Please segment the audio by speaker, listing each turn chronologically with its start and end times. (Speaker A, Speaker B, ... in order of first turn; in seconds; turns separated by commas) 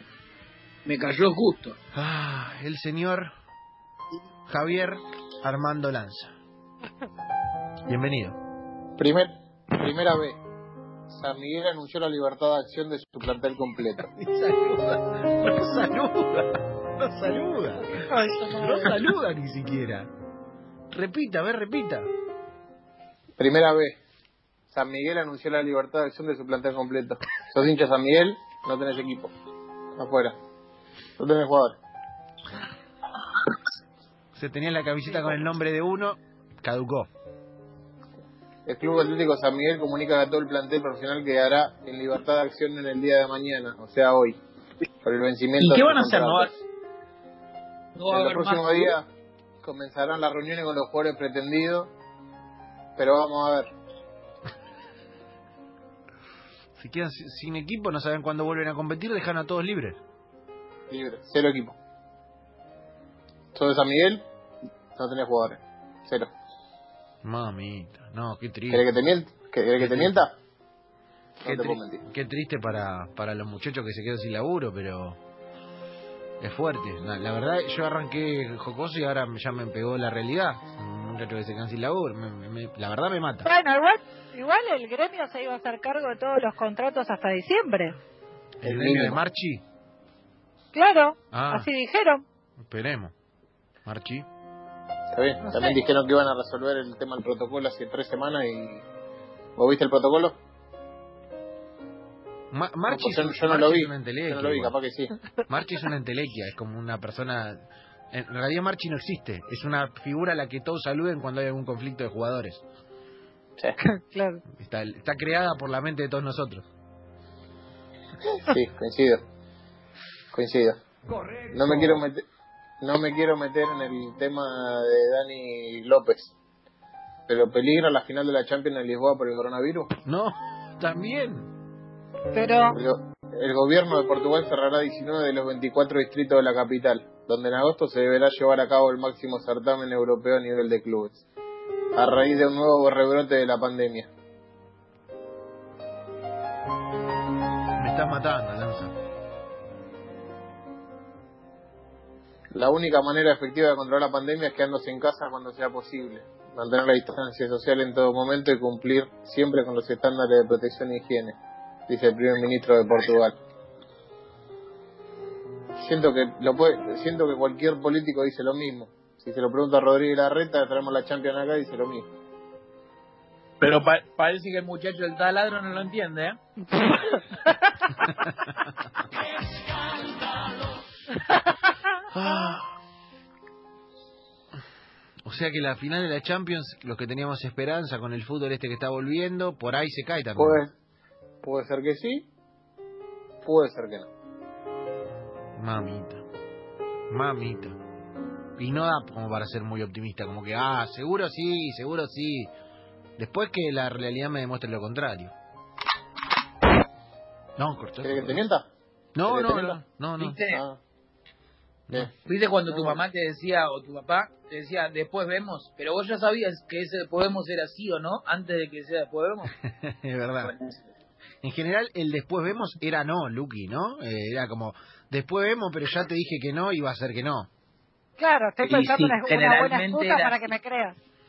Speaker A: 0.8-1.8, Speaker B: 1.9-3.3, Speaker B: 4.5-6.3, Speaker B: 7.9-8.4, Speaker C: 9.0-10.4, Speaker C: 11.1-14.1, Speaker B: 14.1-20.1, Speaker D: 18.0-18.9, Speaker B: 20.9-22.1, Speaker C: 23.4-24.0, Speaker C: 24.7-29.3, Speaker C: 30.0-30.4, Speaker C: 31.2-31.8, Speaker B: 34.3-37.1, Speaker C: 38.6-44.4, Speaker C: 45.0-46.6, Speaker A: 45.6-46.5, Speaker A: 48.0-48.9, Speaker C: 48.1-49.1, Speaker C: 49.6-51.9, Speaker C: 53.0-53.7, Speaker B: 56.8-60.0, Speaker C: 60.9-61.8, Speaker C: 63.5-64.2, Speaker C: 64.9-66.3, Speaker B: 67.2-68.8, Speaker C: 68.7-70.3, Speaker B: 69.8-70.2, Speaker C: 71.4-72.0, Speaker B: 71.4-75.2, Speaker B: 76.4-83.5, Speaker D: 83.4-88.0, Speaker C: 88.6-89.2, Speaker B: 88.6-89.6, Speaker D: 90.7-92.2, Speaker B: 91.3-91.7, Speaker B: 92.6-93.1, Speaker B: 93.8-94.3, Speaker C: 95.1-98.8, Speaker D: 95.4-95.8, Speaker C: 99.5-100.3, Speaker B: 102.5-104.7, Speaker C: 102.9-105.1, Speaker B: 105.5-112.6, Speaker D: 113.8-114.4, Speaker B: 114.5-116.7, Speaker C: 118.3-119.2, Speaker C: 120.3-120.8, Speaker C: 121.5-122.2, Speaker C: 122.8-126.3, Speaker C: 127.3-129.9, Speaker B: 130.0-131.5, Speaker D: 132.3-132.8, Speaker C: 132.7-141.2, Speaker C: 141.9-144.1, Speaker B: 147.8-148.9, Speaker C: 152.5-161.3, Speaker C: 161.9-163.3, Speaker C: 165.8-172.1, Speaker A: 173.6-177.2, Speaker B: 178.1-178.5, Speaker B: 182.1-182.7, Speaker B: 185.2-190.6, Speaker C: 190.4-190.7, Speaker C: 191.4-192.3, Speaker C: 193.4-194.1, Speaker B: 195.6-196.2, Speaker B: 197.1-197.8, Speaker B: 198.6-202.5, Speaker B: 203.2-205.3, Speaker B: 207.6-208.4, Speaker C: 208.0-208.7, Speaker B: 209.2-210.4, Speaker C: 209.2-209.8, Speaker A: 210.2-210.6, Speaker C: 210.5-210.8, Speaker A: 212.2-219.5, Speaker C: 212.7-213.0, Speaker B: 219.6-220.5, Speaker A: 220.4-220.8, Speaker B: 221.4-227.5, Speaker D: 228.2-231.0, Speaker A: 228.6-230.4